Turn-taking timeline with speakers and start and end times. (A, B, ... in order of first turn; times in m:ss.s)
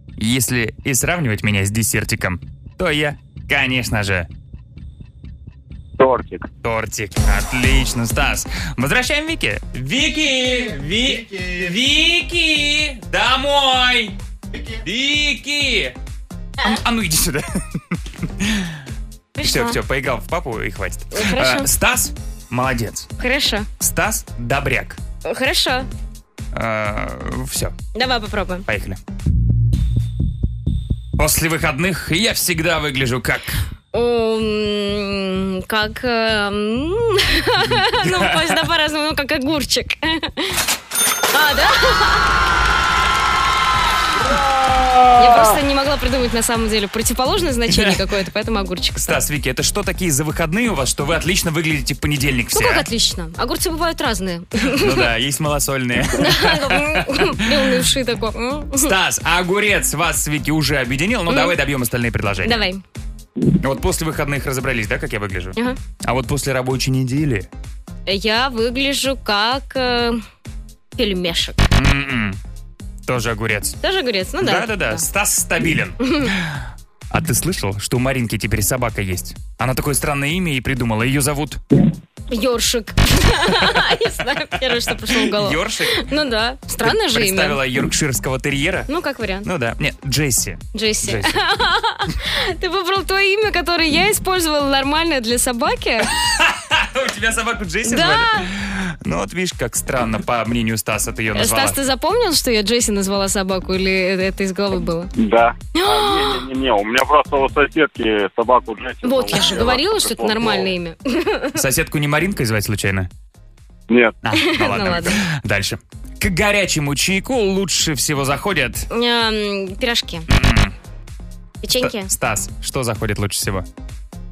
0:00.2-0:04.3 A
0:06.0-0:06.4 B
0:06.6-0:14.1 A
0:14.7-0:15.9 A
0:16.6-0:17.6 A
0:18.2-0:18.8 A
0:19.4-0:19.8 C
0:19.4-0:23.1 A
0:21.1-0:21.7 C
0:23.2-0:23.7 C
0:23.8-0:25.0 A
0:25.2-0:25.9 C
0:26.5-0:27.8 A
0:27.9-0:28.6 C
0:28.7-0:29.0 A
0:31.2-0:33.6 A
0:33.9-0:40.6 C
0:37.7-0:38.6 A
0:41.3-0:42.4 C
0:45.2-0:49.1 C
0:47.7-0:48.0 A
0:49.0-0:52.8 A
0:52.5-0:55.1 C
0:54.7-0:57.8 A
0:56.1-0:58.9 C
0:58.8-1:02.6 A
1:01.3-1:01.5 C
1:02.4-1:02.8 C
1:03.6-1:05.5 A
1:06.0-1:07.5 A
1:08.1-1:10.2 C
1:11.0-1:11.6 C
1:11.7-1:12.4 A
1:13.0-1:13.8 A
1:13.8-1:15.0 C
1:14.4-1:21.6 A
1:22.3-1:27.6 C
1:23.6-1:23.9 A
1:24.6-1:26.1 A
1:26.8-1:28.9 A
1:28.9-1:29.5 C
1:29.4-1:31.3 A
1:30.7-1:36.1 C
1:36.1-1:41.8 A
1:37.8-1:38.5 C
1:41.3-1:45.1 C
1:45.2-1:50.7 B
1:45.7-1:46.4 C
1:49.0-1:51.6 C
1:51.6-1:53.1 A
1:53.9-1:54.2 B
1:54.2-1:58.9 A
1:54.4-1:55.2 C
1:58.9-2:00.2 C
2:00.3-2:00.7 A
2:01.6-2:02.1 C
2:01.8-2:03.6 A